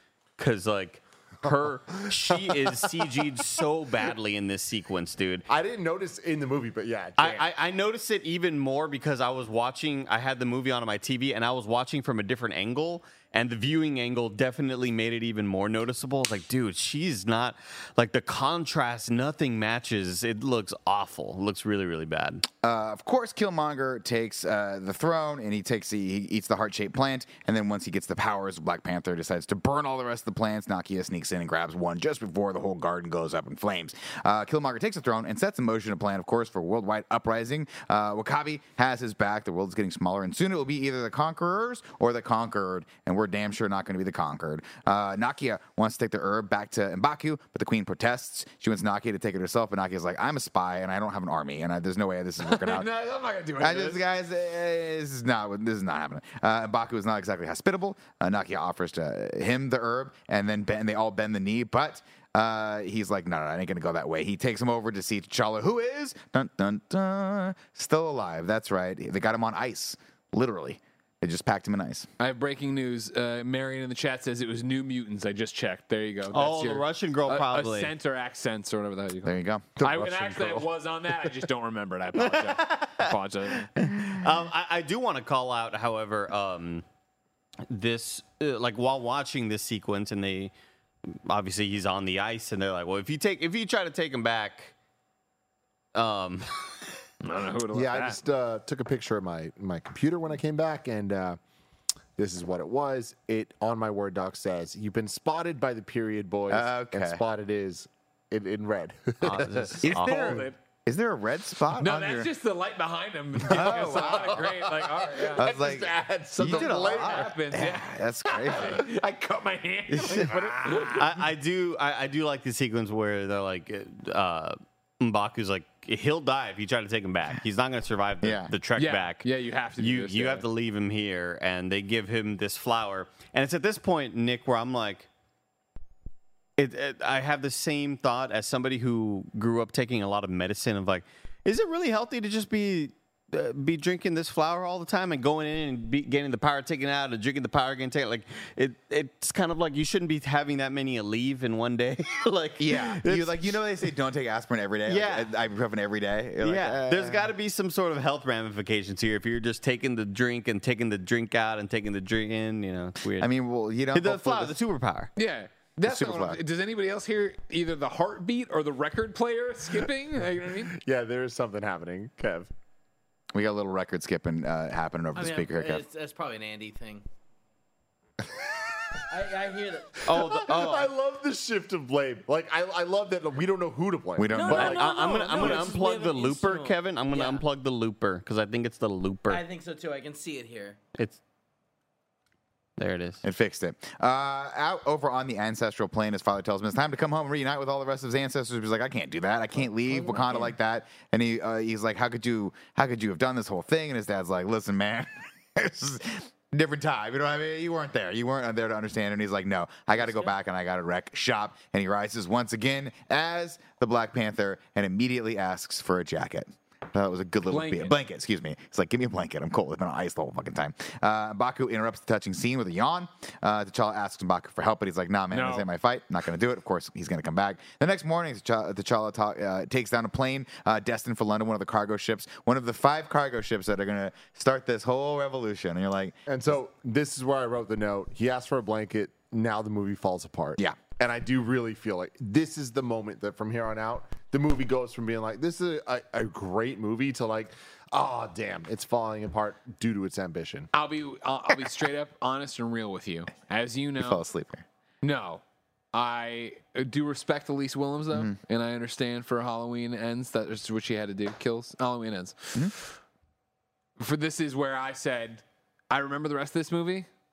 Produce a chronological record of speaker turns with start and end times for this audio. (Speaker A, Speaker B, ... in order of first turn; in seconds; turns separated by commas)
Speaker A: 0.4-5.5, Speaker B: 2.0-3.2, Speaker B: 5.5-7.5, Speaker A: 7.2-22.4, Speaker C: 22.6-52.9, Speaker D: 52.4-54.0, Speaker C: 53.6-72.1, Speaker D: 72.2-83.7, Speaker A: 76.3-77.9, Speaker C: 79.2-79.8, Speaker B: 79.8-80.7, Speaker A: 82.2-83.1, Speaker A: 83.8-86.8, Speaker A: 87.7-90.5, Speaker A: 91.3-94.7, Speaker A: 95.9-96.7, Speaker D: 97.2-98.2, Speaker B: 97.7-101.4, Speaker B: 102.2-110.0, Speaker C: 106.5-107.2, Speaker A: 109.2-110.5, Speaker C: 109.8-112.3, Speaker D: 109.9-110.5, Speaker D: 111.7-115.6, Speaker B: 113.4-117.3, Speaker C: 113.5-114.5, Speaker C: 115.4-118.9, Speaker D: 116.4-121.2, Speaker C: 119.9-120.4, Speaker B: 120.2-120.7, Speaker A: 120.8-129.2, Speaker C: 128.2-128.6, Speaker D: 128.8-130.5, Speaker A: 129.8-135.1, Speaker A: 136.6-153.6, Speaker C: 152.6-157.3, Speaker A: 154.9-155.3, Speaker A: 156.4-163.3, Speaker C: 163.2-164.6, Speaker A: 163.9-165.1, Speaker D: 165.2-170.8, Speaker C: 165.8-166.4, Speaker B: 170.7-172.5, Speaker C: 173.3-175.9, Speaker E: 175.2-177.1, Speaker E: 179.1-180.1, Speaker A: 180.1-180.9, Speaker B: 180.1-184.8, Speaker C: 184.2-184.8, Speaker E: 184.3-187.4, Speaker A: 184.5-189.4, Speaker E: 189.3-190.8, Speaker A: 192.8-193.2, Speaker C: 193.2-236.2, Speaker D: 217.5-218.0, Speaker D: 225.3-225.7, Speaker B: 236.3-250.7, Speaker D: 250.7-254.2, Speaker C: 254.0-254.7, Speaker D: 255.0-255.4, Speaker D: 255.9-262.9, Speaker D: 264.0-267.1